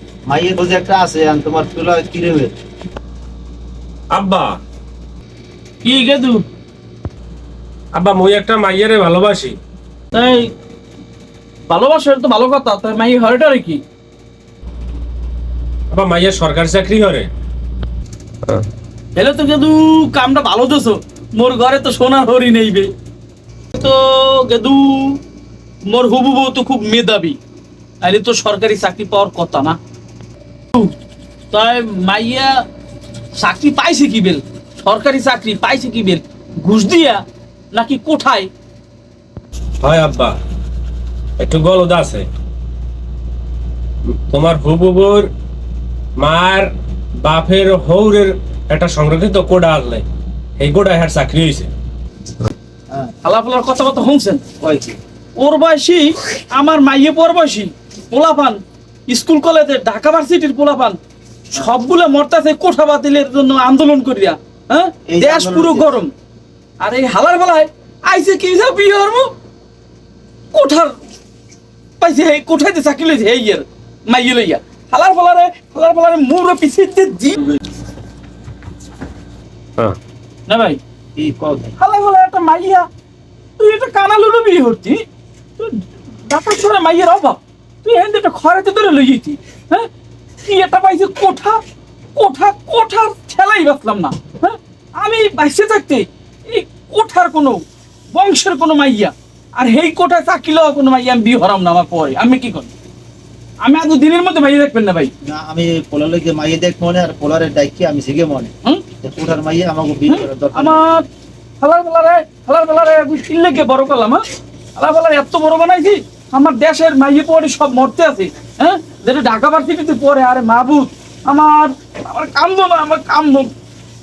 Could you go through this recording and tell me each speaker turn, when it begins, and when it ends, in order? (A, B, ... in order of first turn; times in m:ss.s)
0:00.3-0:02.5 A
0:04.1-0:04.6 B
0:05.8-0:06.4 C
0:07.9-0:09.6 B
0:10.1-0:10.5 C
0:11.7-0:13.8 C
0:15.9-0:17.3 B
0:19.2-0:22.9 C
0:23.7-0:25.2 C
0:25.9-0:27.4 C
0:28.0-0:29.8 C
0:31.5-0:32.6 C
0:33.4-0:37.2 C
0:37.7-0:38.5 C
0:39.8-0:40.4 B
0:41.4-0:42.3 B
0:44.3-0:45.3 B
0:46.2-0:46.7 B
0:47.2-0:50.0 B
0:50.6-0:51.7 B
0:53.2-0:54.4 C
0:54.6-0:55.0 A
0:55.4-1:01.0 C
1:01.5-1:06.1 C
1:05.1-1:06.0 A
1:06.8-1:09.3 C
1:10.5-1:10.9 C
1:12.0-1:17.4 C
1:20.5-1:20.8 C
1:21.2-1:21.8 A
1:21.8-1:22.9 C
1:23.6-1:25.0 C
1:25.6-1:29.9 C
1:30.5-1:31.6 C
1:32.2-1:37.6 C
1:38.1-1:42.7 C
1:43.6-1:45.1 C
1:45.2-1:48.5 A
1:49.0-1:50.9 A
1:50.1-1:51.0 C
1:51.6-1:54.2 C
1:54.8-2:03.5 C